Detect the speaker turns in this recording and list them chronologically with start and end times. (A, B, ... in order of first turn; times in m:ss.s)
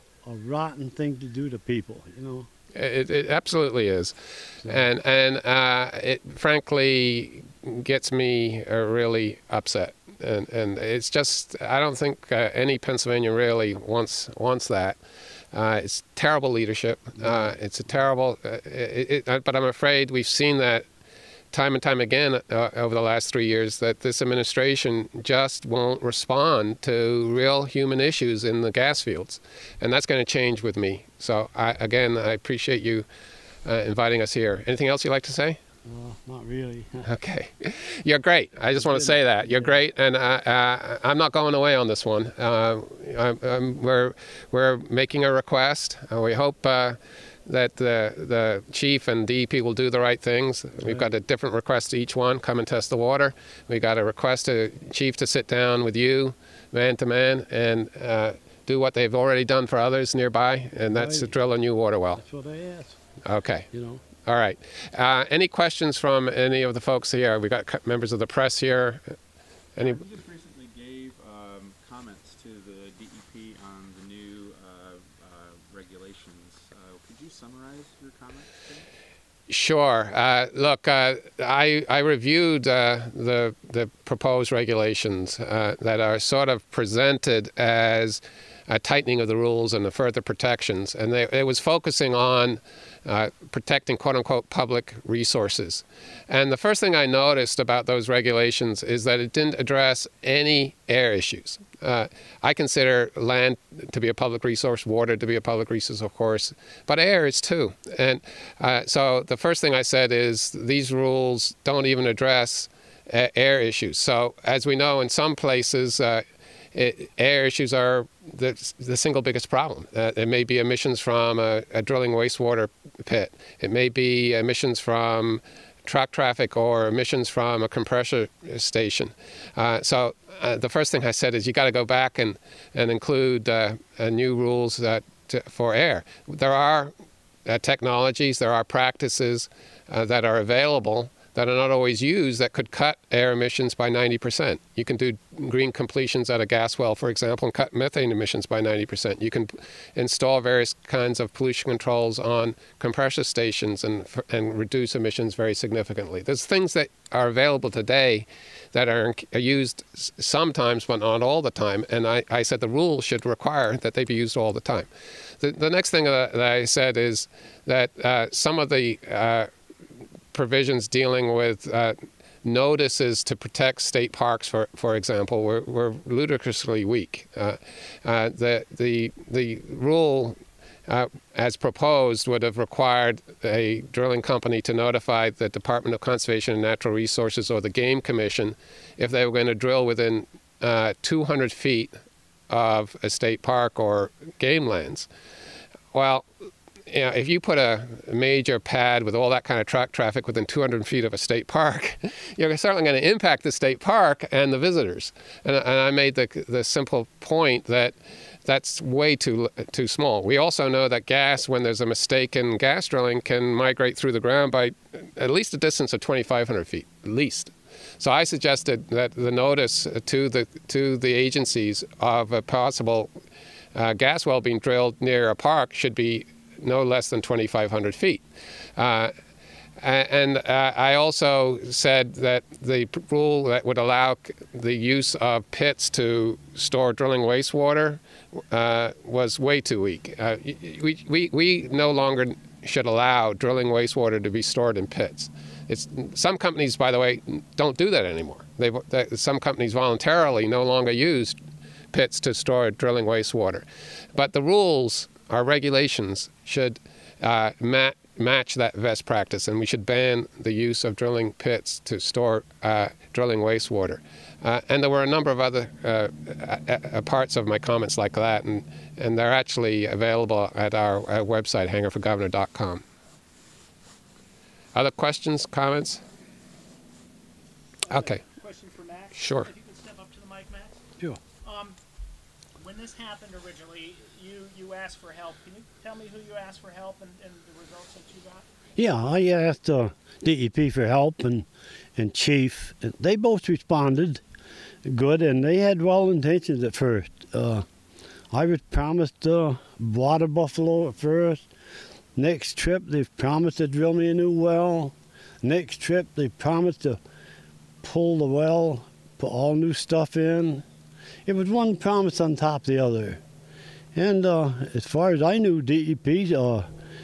0:00.2-0:02.5 A
0:02.7-0:15.0 B
0:15.5-0:20.9 B
0:21.5-0:33.0 B
0:33.6-0:35.6 B
0:35.8-0:37.1 A
0:37.0-1:02.2 B
0:38.7-0:39.8 A
0:50.8-0:51.1 A
1:00.9-1:01.3 A
1:02.2-1:03.0 A
1:03.2-1:03.7 B
1:03.7-1:04.0 A
1:04.2-1:09.2 B
1:09.8-1:18.9 C
1:19.5-2:16.9 B
2:17.4-2:44.9 B
2:45.4-2:49.5 B
2:50.3-3:11.9 B
3:12.5-3:15.1 B
3:15.9-3:16.3 B
3:16.9-3:43.1 B
3:43.7-3:48.2 B
3:48.8-3:49.1 B
3:49.8-4:11.4 B
4:11.9-4:32.8 B
4:34.7-4:36.0 B
4:37.8-4:40.8 D
4:37.9-4:38.2 B
4:39.1-4:39.5 B
4:41.4-4:41.8 D
4:42.6-4:48.5 D
4:48.8-4:54.2 A
4:54.8-4:57.6 A
4:58.3-5:01.5 A
5:02.1-5:07.0 A
5:07.8-5:10.6 A
5:11.2-5:13.2 A
5:13.9-5:16.7 A